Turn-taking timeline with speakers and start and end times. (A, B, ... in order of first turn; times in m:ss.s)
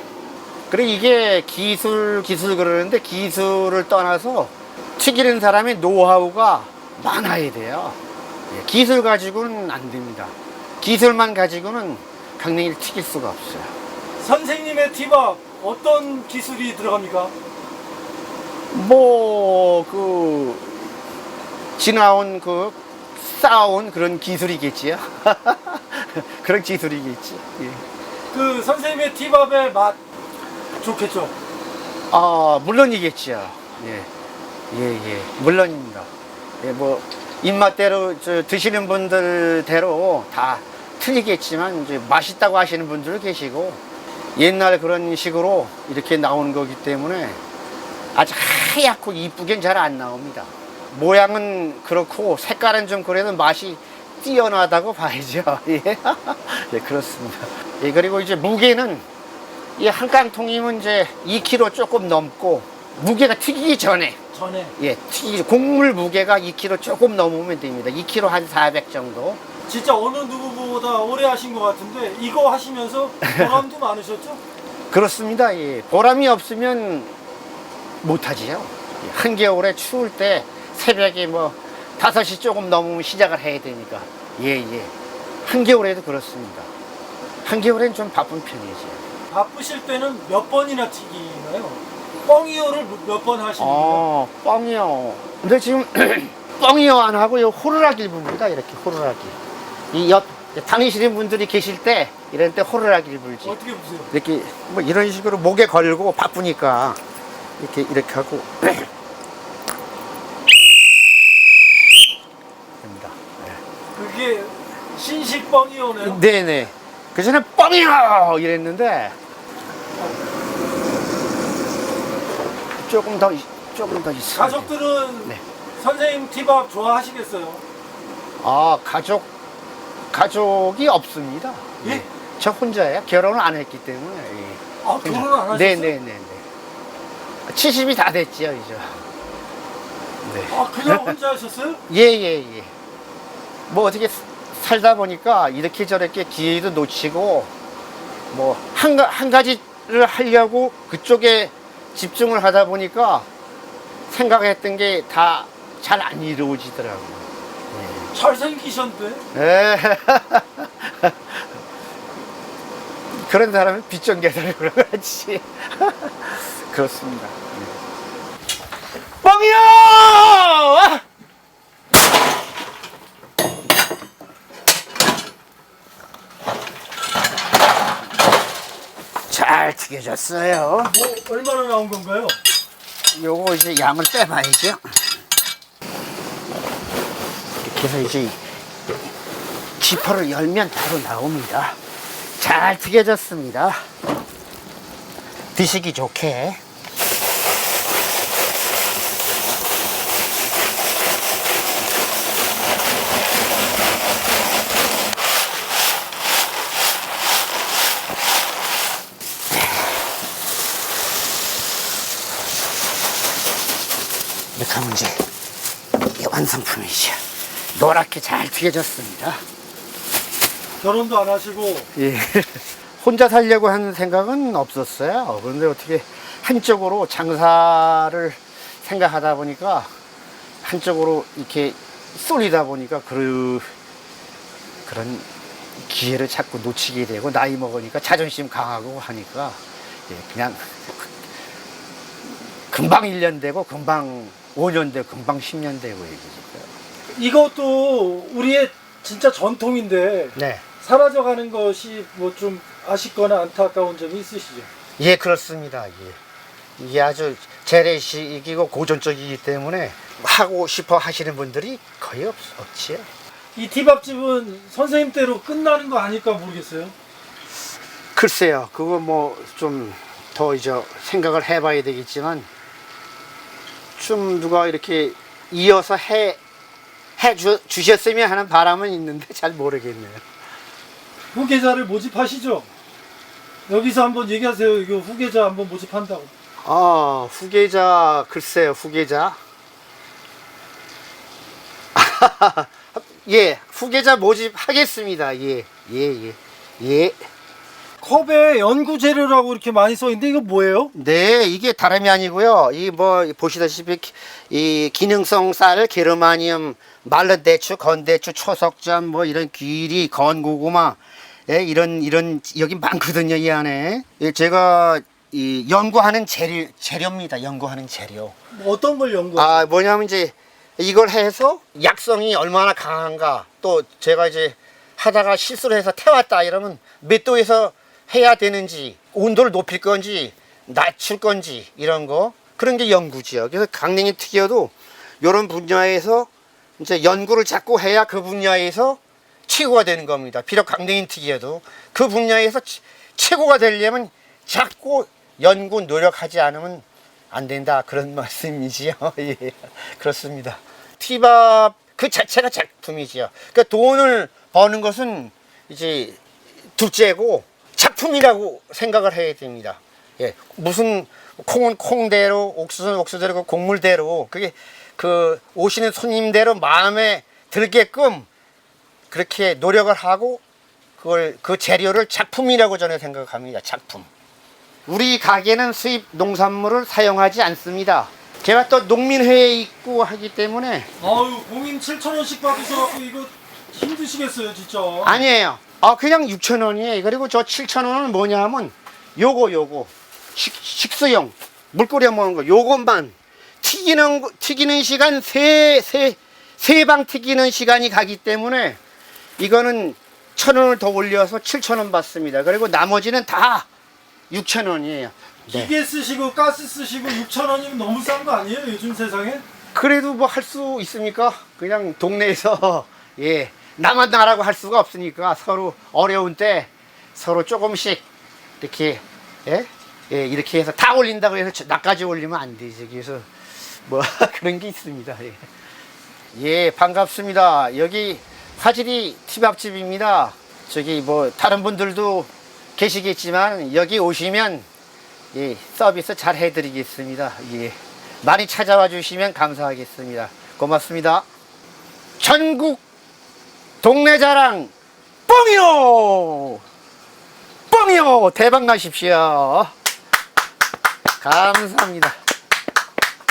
0:00.7-0:08.0 A
0:08.5-0:13.7 A
0:14.2-0:17.3 B
0:18.7-0:21.0 A
0:21.8-0:27.8 A
0:28.3-0:30.0 B
0:30.8-0:31.3 B
0:32.1-0:34.1 A
0:34.7-0:36.1 A
0:36.6-0:43.8 A
0:44.4-0:47.4 A
0:48.1-0:59.0 A
0:59.8-1:04.2 A
1:04.3-1:04.7 B
1:04.8-1:09.4 A
1:09.7-1:14.4 B
1:13.2-1:13.6 A
1:14.9-1:17.1 A
1:18.0-1:24.9 A
1:25.4-1:26.7 A
1:27.4-1:29.1 A
1:29.3-1:34.0 B
1:33.6-1:39.4 A
1:39.9-1:43.6 A
1:43.4-1:44.1 B
1:44.1-1:47.0 A
1:47.6-1:48.9 A
1:52.8-1:53.6 A
1:53.9-1:56.2 B
1:56.0-1:59.2 A
2:02.8-2:04.7 A
2:04.3-2:07.6 B
2:08.4-2:09.3 A
2:10.1-2:16.4 A
2:14.8-2:15.9 B
2:17.5-2:19.0 A
2:20.2-2:21.1 A
2:20.5-2:21.8 B
2:21.9-2:22.7 A
2:23.7-2:27.5 A
2:28.3-2:33.3 A
2:34.1-2:38.1 A
2:38.1-2:39.2 B
2:39.3-2:41.5 A
2:43.1-2:47.8 A
2:49.2-2:51.0 A
2:59.3-3:01.0 A
3:00.8-3:02.4 B
3:03.1-3:04.8 A
3:07.6-3:08.4 A
3:09.8-3:11.8 A
3:12.4-3:13.8 A
3:15.5-3:16.6 A
3:34.5-3:35.2 A
3:36.0-3:37.2 A
3:37.7-3:39.4 A
3:40.8-3:41.9 B
3:41.9-3:49.9 A
3:50.6-3:53.7 A
3:54.8-3:55.3 A
3:55.8-4:01.2 A
4:02.7-4:06.7 A
4:07.1-4:14.7 B
4:10.4-4:10.6 A
4:15.0-4:16.2 A
4:16.8-4:23.1 A
4:23.5-4:26.9 B
4:28.1-4:32.5 A
4:34.0-4:36.4 A
4:37.2-4:40.2 A
4:41.3-4:42.7 B
4:43.7-4:46.3 B
4:46.6-4:49.4 A
4:51.9-4:57.2 A
4:58.0-5:00.9 B
5:00.9-5:18.3 A
5:18.5-5:19.7 B
5:19.4-5:56.2 A
5:56.8-6:08.3 A
6:09.1-6:10.4 A
6:11.0-6:14.1 A
6:14.9-6:20.9 A
6:21.0-6:25.2 B
6:25.0-6:38.8 A
6:39.4-6:43.7 A
6:44.3-6:45.7 A
6:45.5-6:49.4 B
6:49.7-6:58.0 A
6:58.6-7:03.3 A
7:03.8-7:05.4 A
7:06.3-7:14.7 A
7:15.3-7:21.2 A
7:22.2-7:22.8 A
7:23.8-7:24.7 A
7:25.3-7:26.6 A
7:27.7-7:29.7 A
7:31.2-7:32.1 A